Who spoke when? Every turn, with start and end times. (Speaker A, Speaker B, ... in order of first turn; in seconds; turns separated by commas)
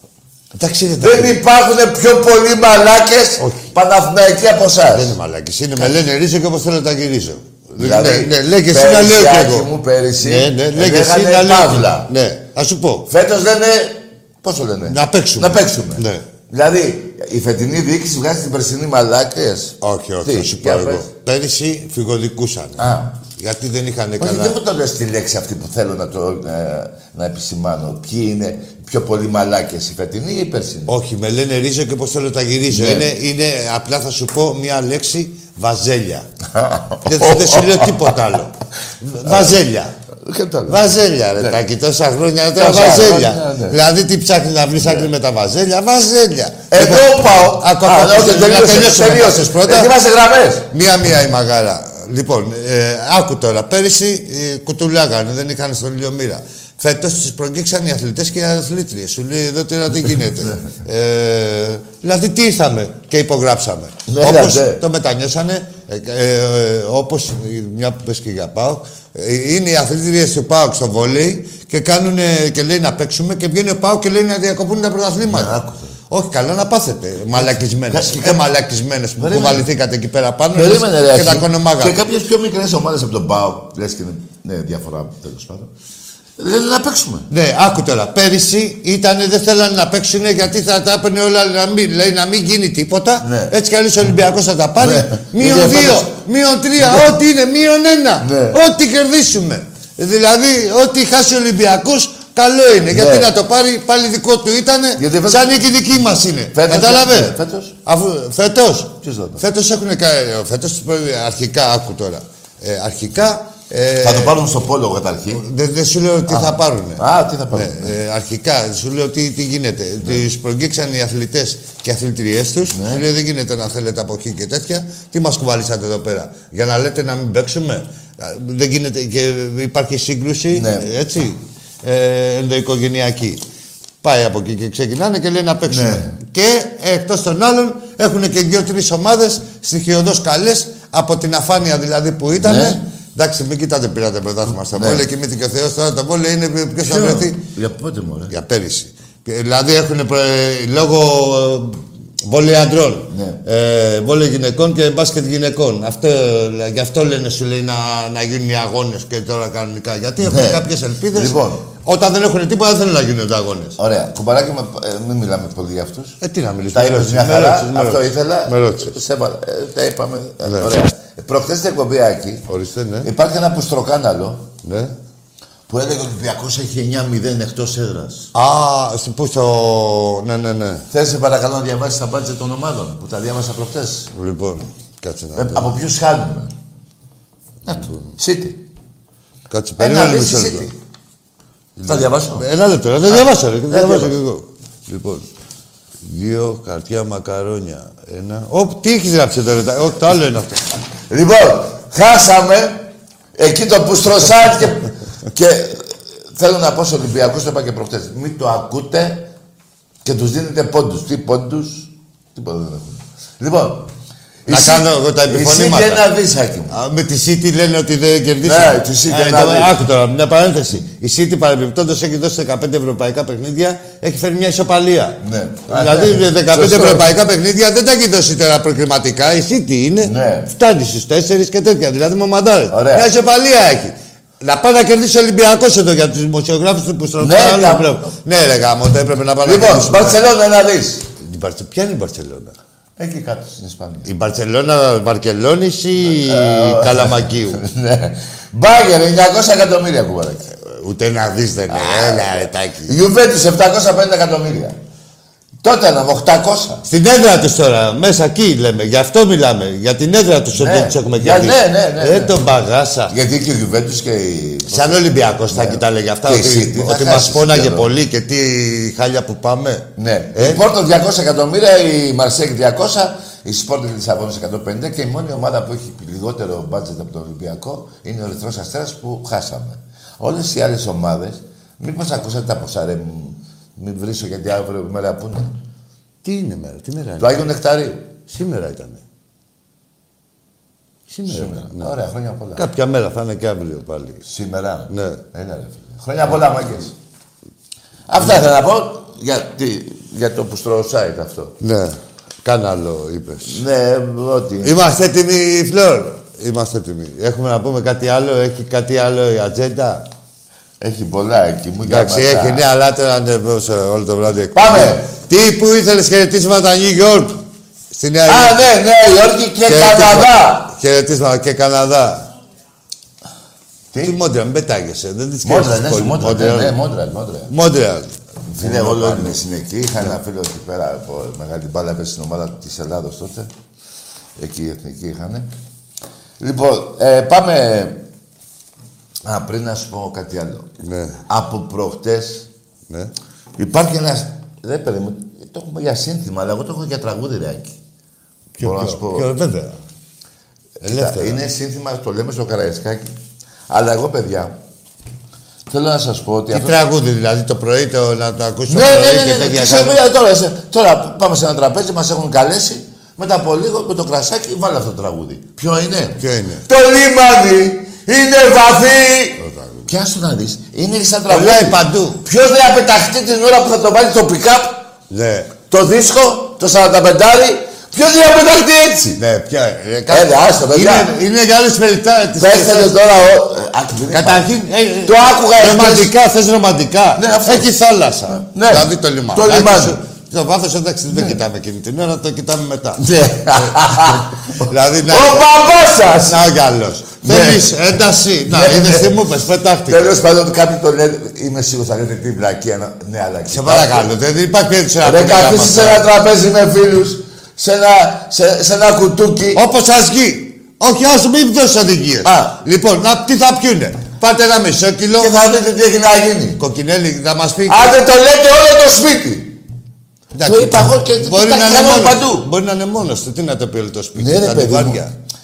Speaker A: 0.6-1.4, Speaker B: 1.0-5.2, Speaker A: 3.4-3.7, Speaker A: 4.9-9.7, Speaker B: 7.8-12.1, Speaker A: 10.2-13.1, Speaker B: 13.1-21.1, Speaker A: 14.9-16.2, Speaker A: 19.8-24.6, Speaker B: 22.8-23.2, Speaker B: 24.2-30.9, Speaker A: 30.9-36.3, Speaker B: 32.7-33.1, Speaker B: 36.5-38.1, Speaker A: 37.0-39.9, Speaker B: 39.2-39.6, Speaker B: 40.2-40.8, Speaker A: 40.7-49.9, Speaker B: 42.5-43.8, Speaker B: 44.8-45.1, Speaker B: 46.7-50.7, Speaker A: 50.7-82.0, Speaker B: 64.1-64.8, Speaker B: 75.2-76.0, Speaker B: 77.3-78.4, Speaker B: 79.2-79.7, Speaker B: 80.5-85.7, Speaker B: 86.4-87.3, Speaker A: 87.3-114.4, Speaker B: 93.2-93.5, Speaker B: 94.8-96.2, Speaker B: 96.8-97.2, Speaker B: 98.2-98.6, Speaker B: 102.9-103.3, Speaker B: 105.0-105.5, Speaker B: 106.5-107.8, Speaker B: 109.0-109.4, Speaker B: 114.0-115.4, Speaker A: 115.3-133.4, Speaker B: 116.3-118.0, Speaker B: 122.7-123.0, Speaker B: 130.5-130.9, Speaker A: 134.0-147.4, Speaker B: 135.7-136.2, Speaker B: 142.4-142.8, Speaker B: 144.7-145.1, Speaker B: 146.9-148.3, Speaker A: 148.3-163.8, Speaker B: 153.1-153.4, Speaker B: 160.2-160.6, Speaker B: 161.1-161.7, Speaker B: 163.8-166.2, Speaker A: 166.2-169.0, Speaker B: 166.7-172.4, Speaker A: 170.4-170.7, Speaker A: 172.5-173.1, Speaker B: 173.0-174.5, Speaker A: 174.6-174.9, Speaker B: 175.7-178.3, Speaker A: 178.3-180.9, Speaker B: 180.9-184.1, Speaker A: 184.1-185.8, Speaker B: 185.3-186.5, Speaker A: 187.7-188.1, Speaker B: 187.7-188.6, Speaker A: 189.5-190.7, Speaker B: 189.8-190.8, Speaker A: 191.8-195.3, Speaker B: 191.8-192.5, Speaker B: 193.1-194.1, Speaker A: 196.0-200.8, Speaker B: 201.1-209.3, Speaker B: 210.0-213.9, Speaker B: 214.5-216.8, Speaker A: 214.5-216.1, Speaker A: 216.7-240.2, Speaker B: 218.4-219.8, Speaker B: 225.2-227.1, Speaker B: 230.0-230.5, Speaker B: 232.7-233.1, Speaker B: 237.2-238.2, Speaker B: 239.4-241.1, Speaker A: 241.2-242.6, Speaker B: 243.0-244.1, Speaker A: 244.1-247.6, Speaker B: 246.1-250.5, Speaker A: 250.6-252.9, Speaker B: 251.7-254.8, Speaker B: 255.6-256.8, Speaker A: 256.9-263.1, Speaker B: 260.6-262.4, Speaker B: 263.1-267.9, Speaker A: 264.7-270.6, Speaker B: 270.0-285.5, Speaker A: 286.2-287.4, Speaker B: 287.2-288.1, Speaker A: 288.3-289.0, Speaker A: 291.1-291.9, Speaker B: 291.3-292.7, Speaker A: 292.6-294.2, Speaker B: 294.2-296.9, Speaker A: 294.9-295.2, Speaker B: 298.1-301.6, Speaker A: 301.6-303.6, Speaker B: 303.4-304.8, Speaker A: 304.6-310.1, Speaker B: 310.8-312.6, Speaker A: 311.8-318.7, Speaker B: 314.6-315.1, Speaker B: 318.3-320.7, Speaker A: 319.7-322.3, Speaker A: 324.0-326.8, Speaker B: 325.4-327.5, Speaker A: 327.5-329.4, Speaker B: 328.5-333.5, Speaker B: 334.4-335.5, Speaker B: 336.4-338.1, Speaker B: 339.2-340.7, Speaker A: 340.8-341.2, Speaker B: 341.3-342.5, Speaker B: 343.6-347.8, Speaker A: 348.6-349.8, Speaker B: 348.6-349.3, Speaker B: 350.8-353.2, Speaker A: 350.8-351.4, Speaker B: 353.7-354.6, Speaker B: 355.7-356.8, Speaker A: 356.5-360.0, Speaker B: 358.7-374.9, Speaker A: 366.2-366.6, Speaker A: 369.4-369.9, Speaker A: 371.3-372.2, Speaker A: 375.1-375.5, Speaker B: 375.7-379.2, Speaker A: 379.2-383.0, Speaker B: 380.1-381.1, Speaker B: 382.4-384.5, Speaker A: 384.1-395.5, Speaker B: 385.1-386.1, Speaker B: 387.2-387.7, Speaker B: 388.3-390.0, Speaker B: 391.1-391.4, Speaker B: 393.0-396.4, Speaker A: 396.1-400.2, Speaker B: 397.2-397.7, Speaker B: 398.5-399.3, Speaker B: 399.9-404.1, Speaker A: 403.5-406.1, Speaker B: 405.0-409.6, Speaker A: 409.6-415.4, Speaker B: 412.2-412.6, Speaker B: 415.2-416.6, Speaker A: 416.6-418.0, Speaker B: 417.7-419.6, Speaker A: 420.4-425.1, Speaker B: 420.4-422.5, Speaker B: 424.2-425.1